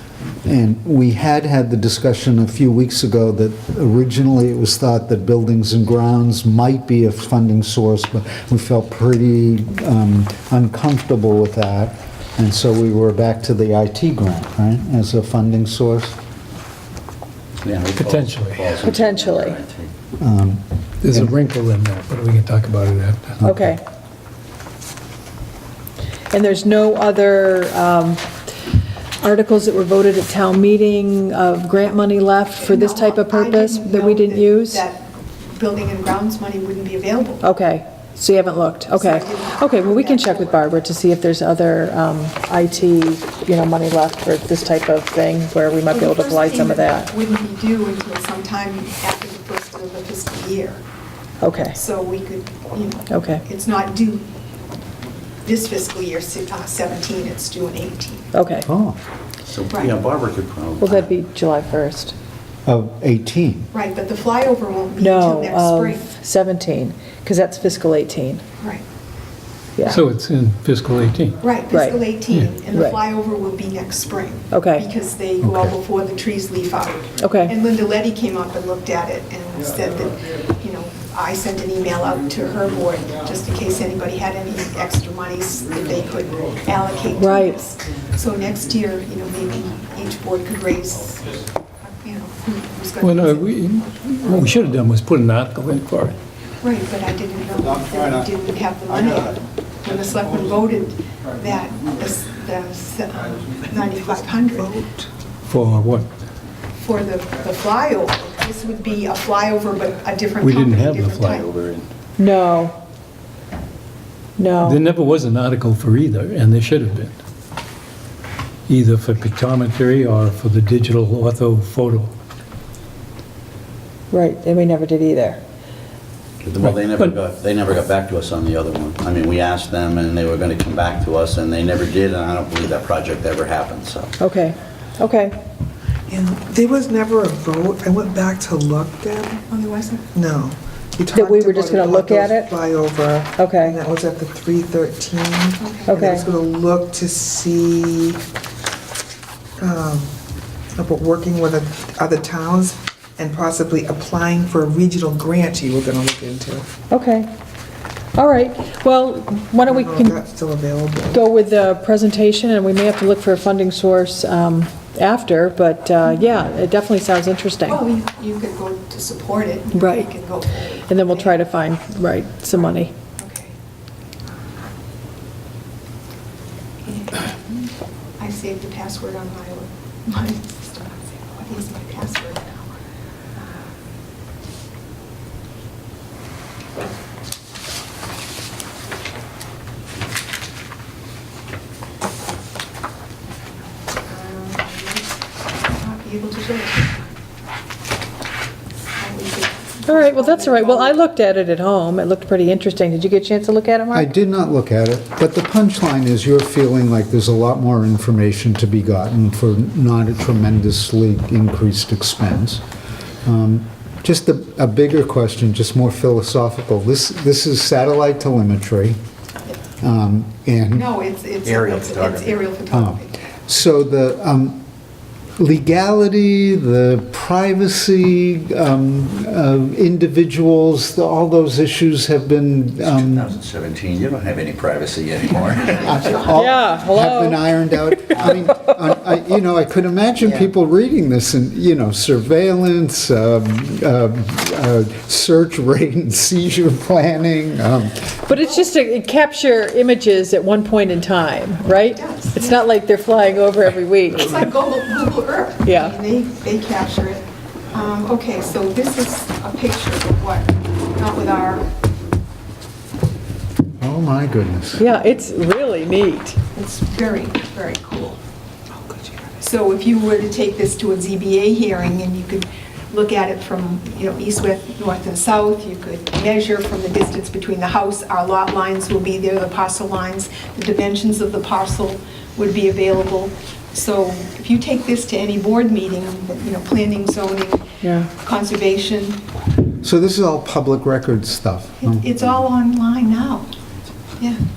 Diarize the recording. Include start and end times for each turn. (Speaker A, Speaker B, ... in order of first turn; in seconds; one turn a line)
Speaker A: 0.4-16.2
Speaker B: 17.6-19.9
Speaker C: 17.9-18.8
Speaker D: 18.8-19.6
Speaker A: 20.2-21.3
Speaker C: 21.0-23.7
Speaker D: 23.4-23.8
Speaker D: 26.3-28.3
Speaker D: 29.2-34.8
Speaker E: 32.6-37.4
Speaker D: 37.4-47.1
Speaker E: 38.8-40.9
Speaker E: 45.9-50.8
Speaker D: 51.4-51.8
Speaker E: 51.7-54.2
Speaker D: 53.1-53.4
Speaker E: 55.4-58.3
Speaker D: 58.3-58.7
Speaker A: 58.7-59.0
Speaker B: 59.5-61.1
Speaker E: 59.7-60.0
Speaker D: 60.8-62.1
Speaker A: 62.6-63.7
Speaker E: 63.7-66.1
Speaker D: 65.0-68.4
Speaker D: 69.8-70.0
Speaker C: 69.8-71.4
Speaker E: 71.4-94.5
Speaker D: 71.7-72.1
Speaker C: 72.3-72.5
Speaker D: 72.7-73.0
Speaker D: 74.5-74.9
Speaker A: 75.4-75.7
Speaker D: 77.2-77.5
Speaker D: 87.2-87.6
Speaker C: 93.0-96.2
Speaker E: 96.6-104.7
Speaker F: 103.8-105.1
Speaker C: 105.5-106.1
Speaker E: 106.8-111.6
Speaker C: 110.4-111.8
Speaker D: 112.2-112.8
Speaker D: 114.4-114.8
Speaker C: 114.6-117.2
Speaker C: 118.7-122.1
Speaker D: 124.1-125.4
Speaker B: 126.4-134.1
Speaker C: 126.6-127.1
Speaker D: 134.2-135.4
Speaker F: 136.1-139.4
Speaker E: 139.5-140.1
Speaker F: 140.1-148.2
Speaker D: 141.1-142.5
Speaker D: 143.3-143.8
Speaker E: 145.6-146.0
Speaker D: 145.9-146.3
Speaker F: 149.6-150.1
Speaker F: 150.7-156.7
Speaker D: 156.9-157.3
Speaker D: 158.1-160.2
Speaker F: 159.6-161.2
Speaker D: 161.1-167.8
Speaker E: 167.6-171.4
Speaker D: 169.7-170.1
Speaker D: 170.8-172.9
Speaker E: 172.5-173.5
Speaker E: 176.8-177.7
Speaker E: 178.2-182.8
Speaker E: 183.3-183.7
Speaker E: 194.0-197.2
Speaker E: 199.0-201.0
Speaker D: 199.8-204.1
Speaker A: 203.9-212.6
Speaker A: 213.2-219.0
Speaker A: 219.8-220.9
Speaker E: 220.7-223.2
Speaker B: 221.4-222.4
Speaker A: 222.7-224.6
Speaker A: 225.4-233.4
Speaker B: 232.8-236.4
Speaker A: 235.8-248.2
Speaker E: 235.9-236.2
Speaker D: 236.3-238.6
Speaker D: 248.2-254.5
Speaker E: 251.8-252.7
Speaker E: 254.1-261.7
Speaker D: 255.6-256.0
Speaker A: 263.8-264.9
Speaker D: 264.8-266.4
Speaker E: 266.5-268.2
Speaker F: 268.8-269.2
Speaker E: 269.4-289.2
Speaker D: 287.8-288.1
Speaker A: 289.8-292.0
Speaker E: 291.8-293.5